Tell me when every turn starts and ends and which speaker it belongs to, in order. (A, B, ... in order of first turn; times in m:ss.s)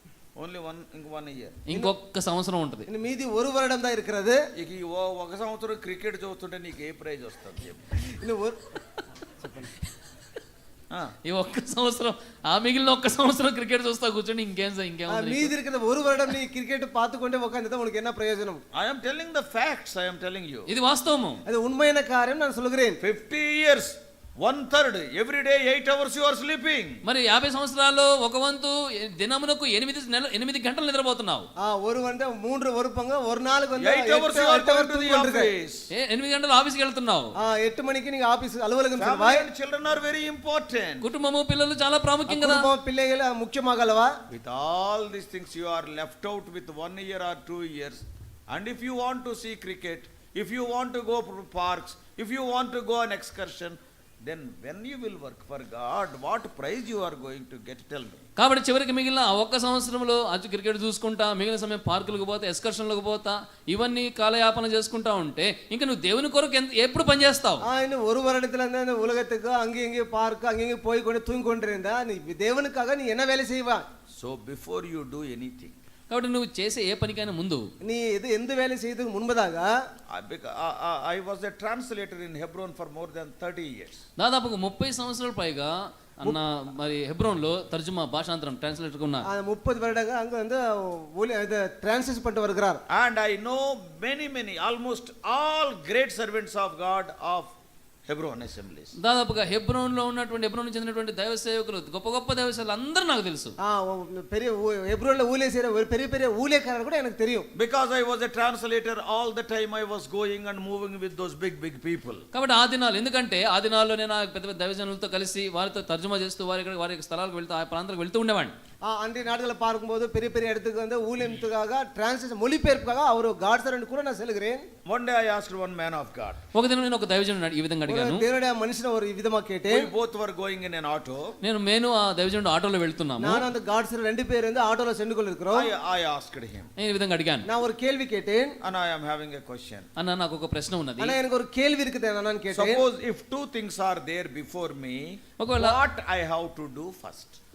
0:00.4-0:01.6 A
0:01.7-0:02.9 B
0:02.9-0:04.4 C
0:04.5-0:07.9 A
0:08.1-0:08.6 C
0:09.4-0:09.7 C
0:10.9-0:11.2 A
0:11.2-0:15.5 B
0:15.1-0:18.6 C
0:18.7-0:20.7 A
0:20.7-0:21.4 B
0:21.4-0:23.0 C
0:23.0-0:27.0 A
0:27.0-0:31.5 B
0:31.6-0:35.5 C
0:33.8-0:35.8 A
0:35.9-0:37.3 B
0:37.4-0:39.4 C
0:39.0-0:41.0 A
0:41.0-0:42.7 B
0:42.3-0:44.1 C
0:44.3-0:58.2 A
0:58.4-1:07.6 B
1:07.6-1:13.8 C
1:14.2-1:15.8 A
1:16.1-1:17.7 B
1:17.8-1:19.7 C
1:20.1-1:24.0 A
1:24.2-1:29.3 B
1:29.2-1:32.8 C
1:32.9-1:37.5 A
1:38.1-1:38.9 A
1:39.0-1:43.5 B
1:43.6-1:47.5 C
1:47.5-1:52.2 A
1:52.3-1:58.5 B
1:58.8-2:04.6 C
2:04.8-2:06.4 A
2:06.5-2:08.2 B
2:07.9-2:09.9 C
2:09.7-2:11.4 A
2:11.4-2:13.4 B
2:13.2-2:15.7 C
2:15.5-2:16.7 A
2:16.8-2:17.5 B
2:17.4-2:18.6 C
2:18.6-2:19.9 A
2:20.0-2:21.2 B
2:21.0-2:22.8 C
2:22.5-2:27.4 A
2:25.4-2:25.8 B